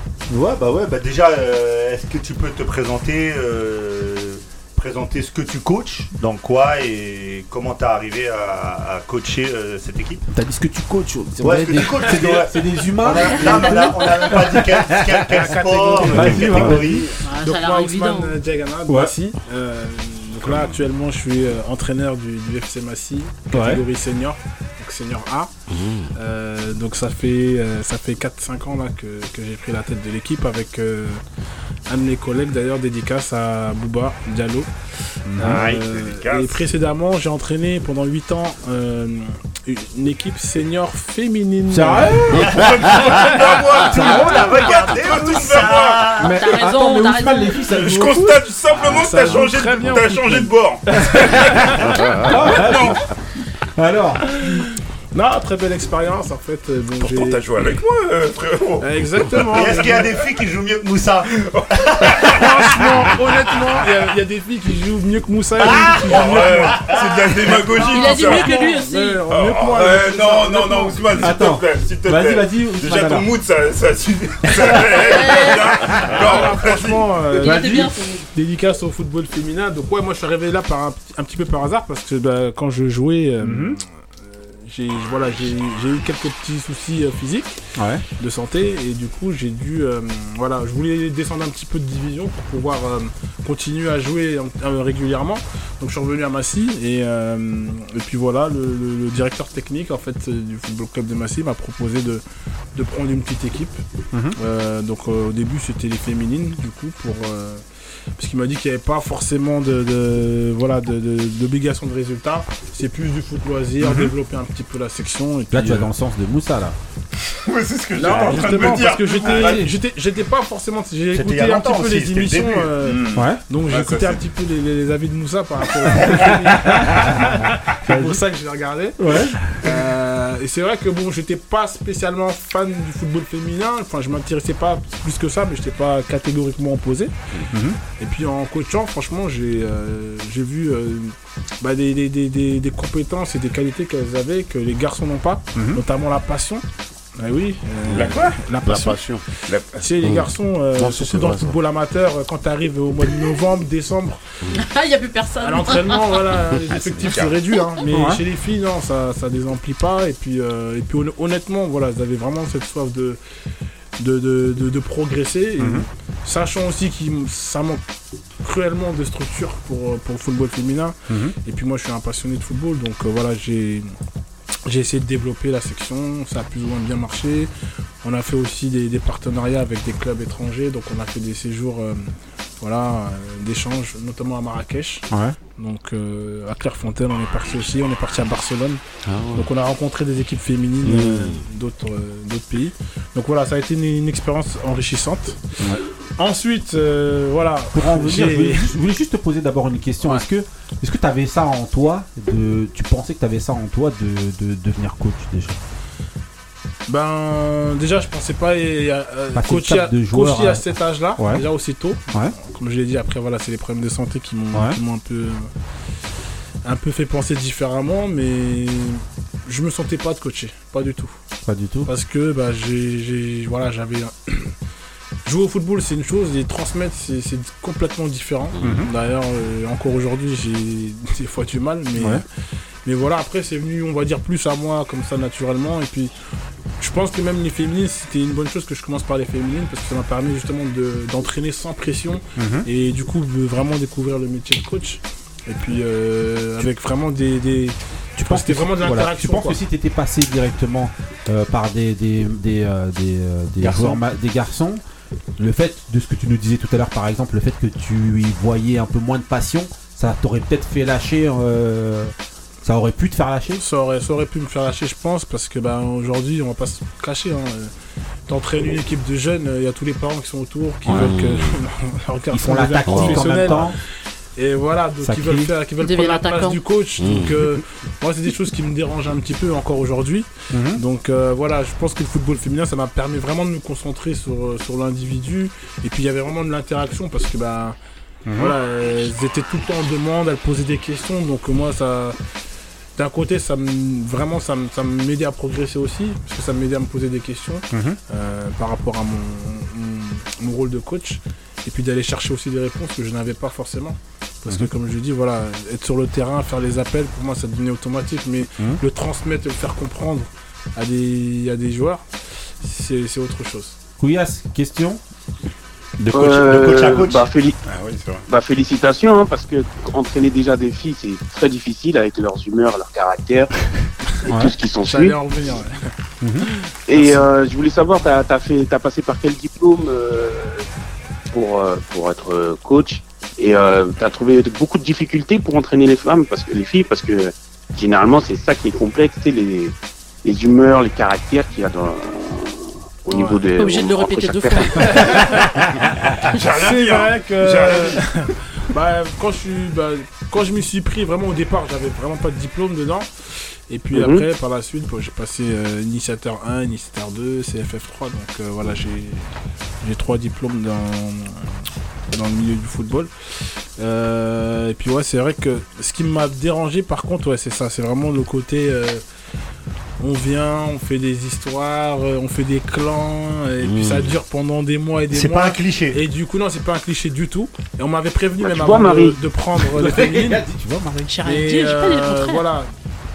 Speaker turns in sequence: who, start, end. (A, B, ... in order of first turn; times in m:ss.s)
0:00.3-0:10.2 A
0:10.3-0:17.1 B
0:11.4-0:17.2 A
0:13.2-0:14.3 C
0:15.3-0:16.4 D
0:16.2-0:16.8 E
0:17.2-0:18.4 C
0:17.4-0:25.5 D
0:20.4-0:20.7 F
0:23.5-0:23.8 B
0:25.7-0:26.1 E
0:26.2-0:31.2 D
0:31.9-0:34.7 D
0:35.3-0:35.6 B
0:35.4-0:42.4 D
0:35.5-0:36.6 F
0:41.7-0:42.6 B
0:42.4-0:46.3 F
0:42.4-0:46.4 A
0:44.0-0:44.5 B
0:46.2-0:48.4 B
0:46.4-0:47.6 C
0:47.7-0:53.0 F
0:48.8-0:52.1 D
0:52.2-0:53.0 B
0:53.8-0:54.4 B
0:54.5-0:57.4 D
0:57.0-0:59.9 F
0:58.8-1:00.1 D
0:59.5-1:02.5 A
1:01.5-1:02.4 F
1:02.3-1:06.9 D
1:05.6-1:08.5 F
1:06.0-1:06.4 A
1:07.7-1:09.2 C
1:07.7-1:11.0 D
1:09.3-1:17.1 F
1:11.2-1:13.3 B
1:15.1-1:15.8 C
1:16.1-1:27.6 D
1:17.4-1:18.3 C
1:17.4-1:17.9 B
1:23.4-1:23.8 B
1:27.8-1:28.0 B
1:28.2-1:42.2 D
1:42.8-1:43.8 D
1:44.4-1:47.6 D
1:48.2-1:55.9 D
1:53.8-1:54.1 B
1:55.5-1:56.8 B
1:57.4-1:59.7 F
1:58.0-2:17.1 D
1:58.1-1:58.4 B
1:59.3-1:59.6 B
2:01.1-2:02.8 A
2:02.8-2:04.2 F
2:03.2-2:03.4 B
2:06.7-2:07.3 B
2:07.9-2:08.2 B
2:09.0-2:09.4 B
2:17.5-2:17.8 B
2:18.0-2:26.6 D
2:25.5-2:25.8 B
2:27.2-2:29.0 D
2:27.9-2:28.4 F
2:28.6-2:29.2 E
2:29.5-2:29.8 F
2:29.8-2:34.2 D
2:30.0-2:31.5 E
2:34.6-2:36.2 C
2:35.4-2:43.2 D
2:36.8-2:37.4 F
2:37.9-2:38.2 B
2:44.0-2:47.8 D
2:45.6-2:45.9 B
2:48.4-2:53.9 D
2:51.1-2:51.4 B
2:54.6-2:57.5 D
2:58.0-3:05.1 D
3:05.1-3:05.4 B
3:05.6-3:08.8 D
3:09.1-3:09.5 E
3:09.3-3:15.5 D
3:10.8-3:11.4 E
3:16.2-3:18.7 D
3:17.7-3:25.6 B
3:26.9-3:35.5 D
3:29.4-3:31.4 B
3:32.1-3:32.4 B
3:36.6-3:41.2 D
3:41.5-3:41.9 B
3:41.9-3:44.5 D
3:45.2-3:52.2 D
3:48.6-3:48.9 B
3:52.0-3:52.2 B
3:52.8-3:56.1 D
3:56.8-4:09.6 D
4:02.4-4:02.7 B
4:08.2-4:14.8 B
4:13.6-4:14.0 D
4:15.4-4:23.6 B
4:23.6-4:27.7 D
4:28.3-4:33.8 D
4:30.9-4:31.6 E
4:32.3-4:33.8 B
4:32.9-4:33.5 E
4:34.4-4:47.8 D
4:35.0-4:35.5 B
4:35.8-4:36.6 C
4:37.0-4:37.3 E
4:40.5-4:40.8 B
4:48.2-4:48.5 B
4:48.4-4:52.2 D
4:53.0-5:12.0 D
4:57.7-4:58.0 B
5:12.6-5:13.8 D
5:14.0-5:15.0 B
5:16.0-5:17.3 A
5:16.1-5:17.6 G
5:17.6-5:18.2 F
5:18.3-5:23.5 G
5:24.2-5:25.2 G
5:24.3-5:24.5 B
5:24.8-5:25.9 D
5:26.2-5:26.5 B
5:26.5-5:27.2 D
5:26.9-5:30.6 G
5:31.3-5:45.3 G
5:43.5-5:45.6 C
5:45.0-5:45.3 B
5:46.3-5:48.0 F
5:46.5-5:53.1 D
5:53.7-6:01.5 D
5:53.9-5:54.2 G
6:02.1-6:03.1 D
6:03.8-6:09.0 D
6:10.0-6:20.4 D
6:13.6-6:14.2 E
6:15.1-6:16.0 A
6:18.4-6:19.2 G
6:19.7-6:21.1 B
6:21.0-6:22.4 C
6:21.2-6:22.7 D